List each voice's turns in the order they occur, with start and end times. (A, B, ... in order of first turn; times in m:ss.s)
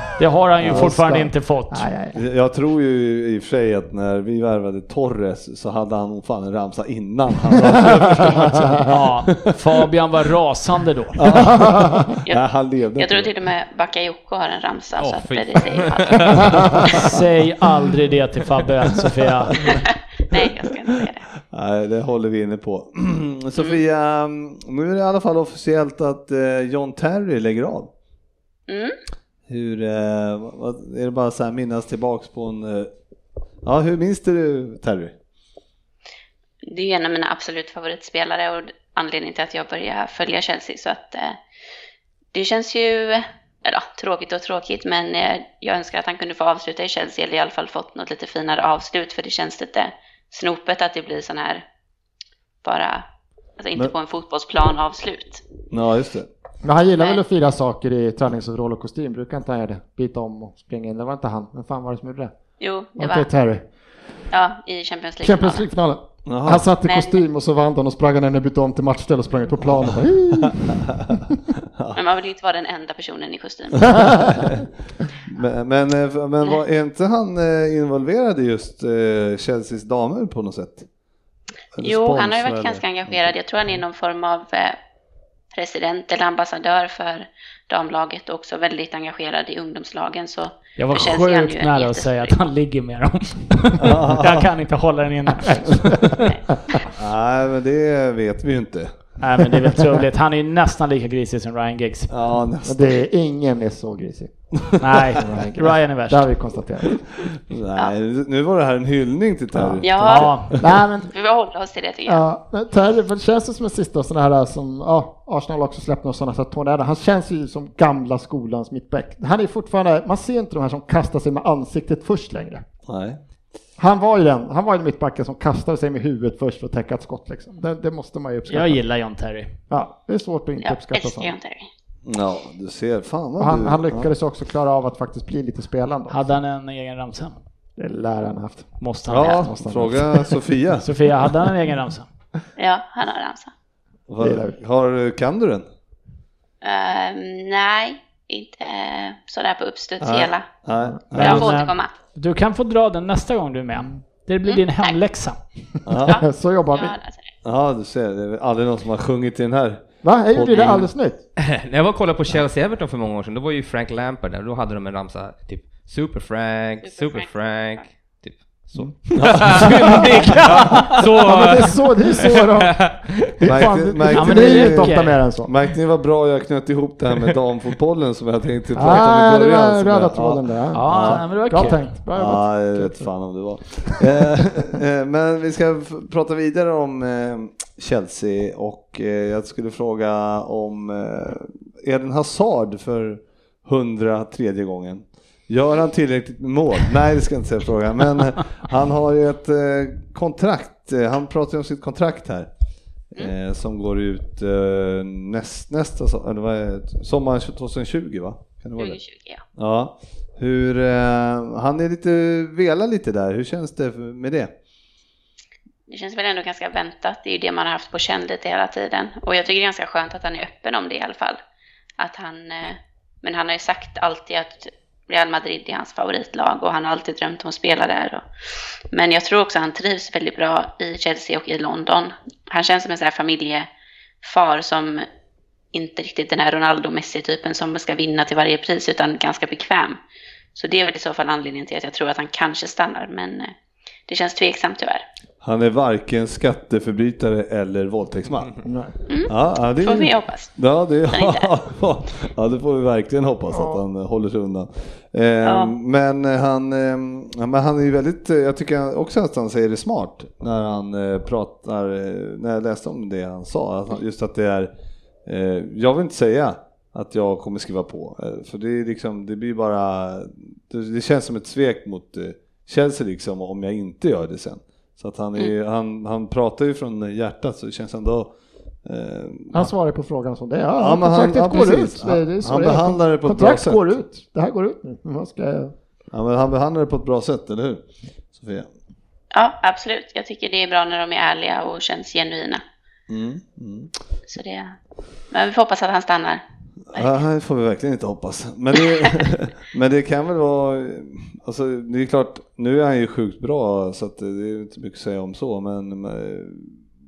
0:00.2-0:01.9 A
0:00.6-0:02.2 B
0:00.6-0:00.9 C
0:02.1-0:09.4 C
0:07.8-0:08.7 B
0:08.9-0:11.3 A
0:11.2-0:13.3 C
0:13.0-0:17.0 D
0:15.0-0:16.9 E
0:16.9-0:19.6 A
0:19.6-0:21.3 D
0:20.3-0:27.9 C
0:28.7-0:29.0 D
0:29.5-0:32.9 C
0:33.6-0:35.2 C
0:36.6-0:41.4 D
0:42.3-0:51.6 D
0:52.6-0:53.0 D
0:53.6-0:55.4 D
0:55.7-0:56.3 C
0:56.6-1:02.3 B
1:02.6-1:03.3 D
1:03.0-1:03.6 B
1:04.3-1:05.7 D
1:05.2-1:11.4 B
1:06.3-1:06.7 C
1:06.8-1:07.2 D
1:11.9-1:14.3 D
1:15.2-1:20.9 C
1:21.8-1:23.3 C
1:21.8-1:24.8 D
1:25.5-1:32.4 D
1:30.8-1:36.3 A
1:33.8-1:34.5 C
1:35.5-1:36.1 B
1:36.3-1:36.8 D
1:36.9-1:38.9 C
1:39.2-1:42.1 A
1:42.1-1:43.0 C
1:42.6-1:44.3 B
1:44.8-1:46.3 A
1:45.1-1:47.0 B
1:47.2-1:50.8 C
1:49.5-1:49.8 B
1:49.8-1:52.2 D
1:50.0-1:50.5 A
1:50.6-1:51.1 B
1:52.1-2:02.6 B
2:02.9-2:03.2 C
2:03.8-2:08.8 B
2:08.5-2:09.5 A
2:09.7-2:11.3 B
2:10.6-2:11.7 D
2:12.1-2:14.1 C
2:13.4-2:16.2 B
2:16.1-2:17.4 A
2:17.8-2:20.4 B
2:18.8-2:19.5 A
2:19.1-2:20.9 C
2:20.8-2:22.1 A
2:22.6-2:23.5 D
2:24.1-2:25.7 C
2:24.2-2:24.6 B
2:26.6-2:30.5 D
2:30.0-2:31.5 C
2:31.2-2:31.9 D
2:31.2-2:35.4 A
2:34.5-2:35.0 D
2:35.9-2:36.2 C
2:36.0-2:37.3 D
2:36.1-2:37.0 B
2:37.4-2:40.9 C
2:40.0-2:41.2 B
2:41.4-2:53.2 E
2:46.8-2:47.8 D
2:49.1-2:50.0 C
2:49.5-2:51.0 A
2:51.2-2:55.5 B
2:53.4-3:01.2 C
2:54.1-2:55.2 A
2:58.8-3:03.1 B
3:00.7-3:01.9 A
3:02.1-3:22.5 C
3:23.1-3:29.0 C
3:28.8-3:29.4 D
3:29.6-3:34.5 C
3:35.9-3:41.4 D
3:42.0-3:48.2 D
3:48.9-3:53.7 D
3:54.2-3:55.1 D
3:55.7-4:00.0 D
4:00.6-4:03.5 D
4:04.1-4:05.0 D
4:05.4-4:08.6 C
4:08.6-4:09.0 B
4:09.1-4:10.5 D
4:09.3-4:24.7 C
4:11.1-4:11.5 D
4:13.5-4:13.8 B
4:15.4-4:15.7 D
4:25.3-4:38.3 C
4:38.8-4:39.7 C
4:39.5-4:45.7 B
4:40.8-4:43.8 C
4:46.1-4:48.7 C
4:49.3-4:52.6 D
4:53.1-4:53.9 C
4:54.3-4:54.8 D
4:55.3-4:56.4 D
4:56.9-5:06.8 C